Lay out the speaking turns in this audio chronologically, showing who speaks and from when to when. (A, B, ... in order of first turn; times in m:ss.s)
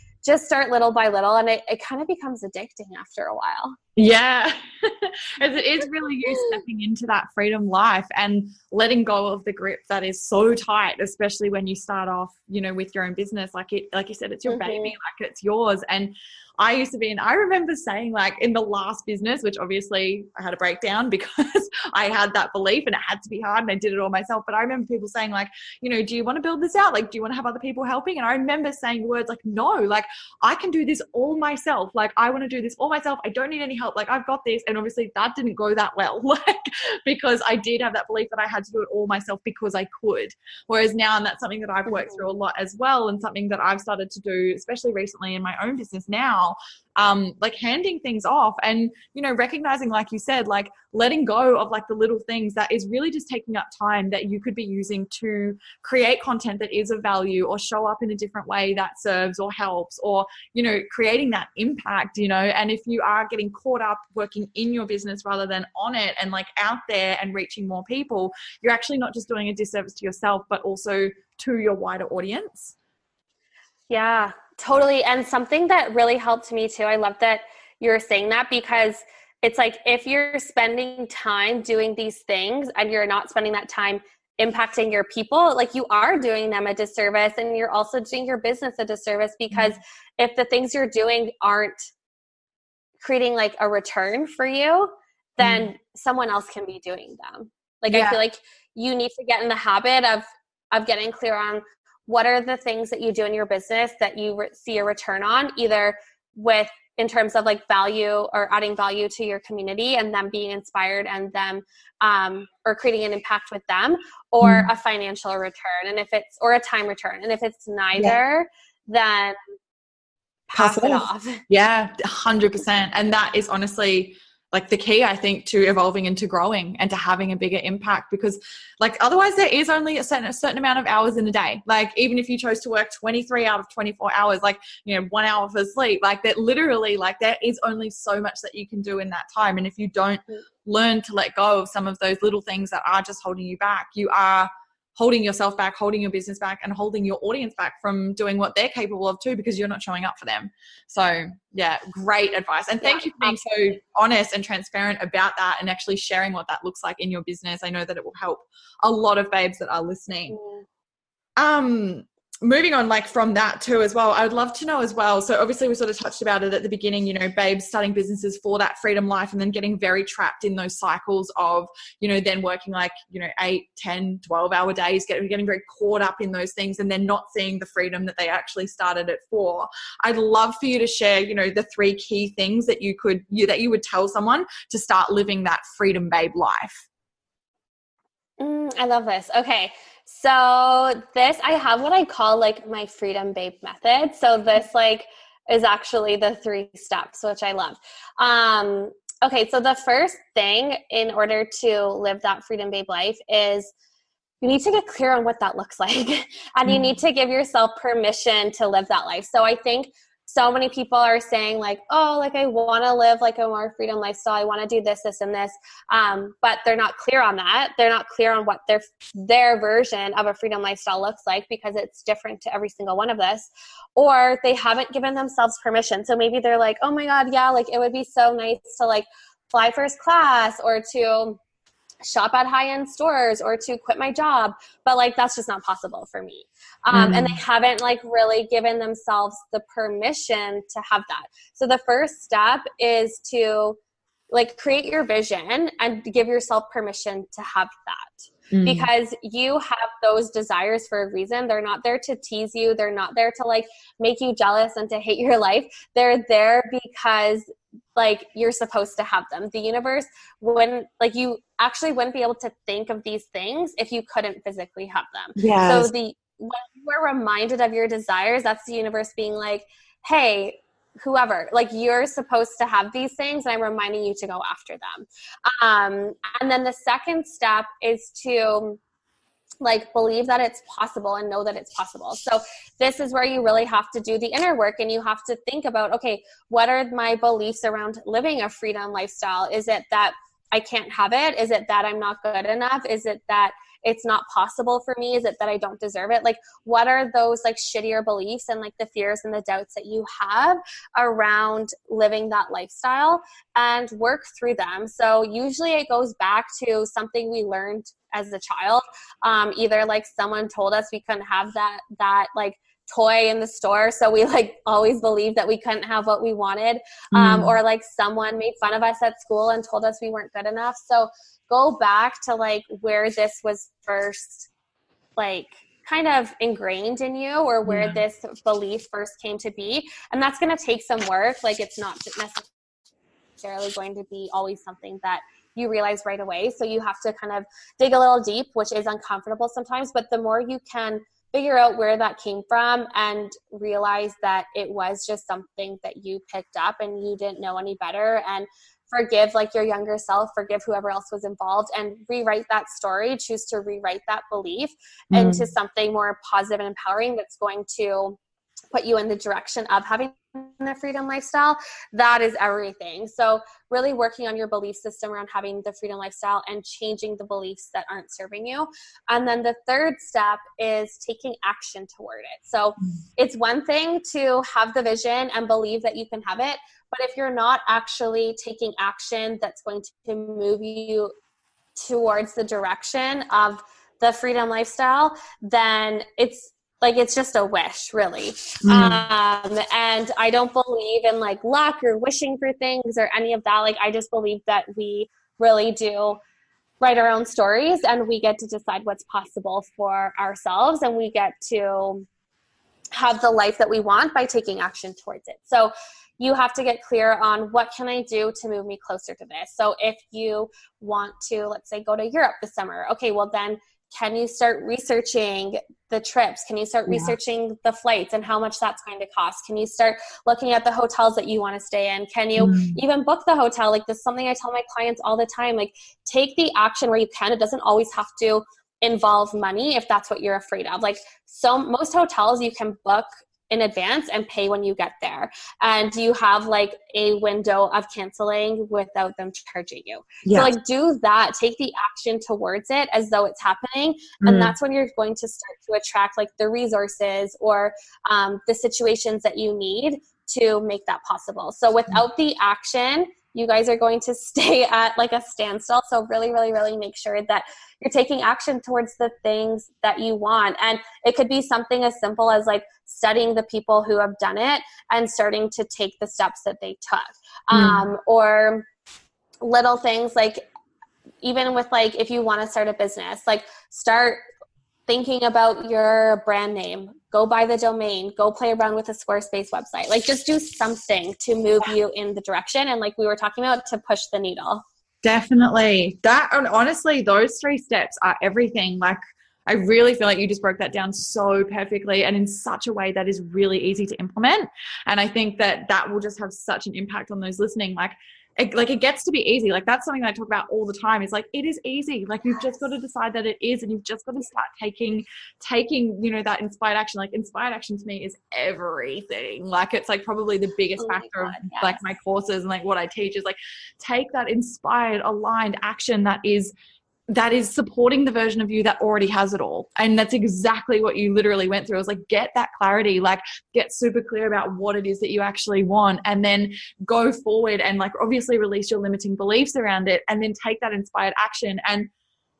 0:00.2-0:03.8 A
0:04.0-1:12.7 B
0:14.5-0:14.9 A
0:41.9-0:42.2 A
1:13.9-1:31.8 A
1:29.5-1:29.8 B
1:33.0-1:59.4 A
1:35.4-1:35.7 B
1:37.9-1:38.2 B
1:54.4-1:54.7 B
2:00.5-2:01.4 A
2:00.5-2:40.4 B
2:32.8-2:33.5 A
2:40.3-2:40.6 A
2:41.4-3:06.8 B
3:08.4-3:23.7 A
3:24.4-3:51.4 A
3:26.6-3:26.9 B
3:52.0-4:03.8 A
3:56.9-3:57.4 B
4:04.3-4:38.8 A
4:08.5-4:08.9 B
4:25.4-4:25.9 B
4:39.6-5:24.5 A
5:17.1-5:17.5 B
5:25.2-5:32.5 A
5:27.6-5:28.0 B
5:33.4-5:58.2 A
5:55.1-5:55.5 B
5:58.7-6:21.1 A
6:21.8-6:36.2 A
6:28.6-6:29.1 B
6:36.8-6:42.0 A
6:43.0-7:48.6 A
6:56.9-6:57.1 B
7:02.4-7:02.8 B
7:20.2-7:20.5 B
7:24.2-7:24.5 B
7:47.5-7:47.9 B
7:49.4-7:50.4 A
7:51.2-7:54.2 A
7:54.9-8:04.6 A
8:05.0-8:36.5 B
8:30.8-8:32.0 A
8:37.1-8:51.9 B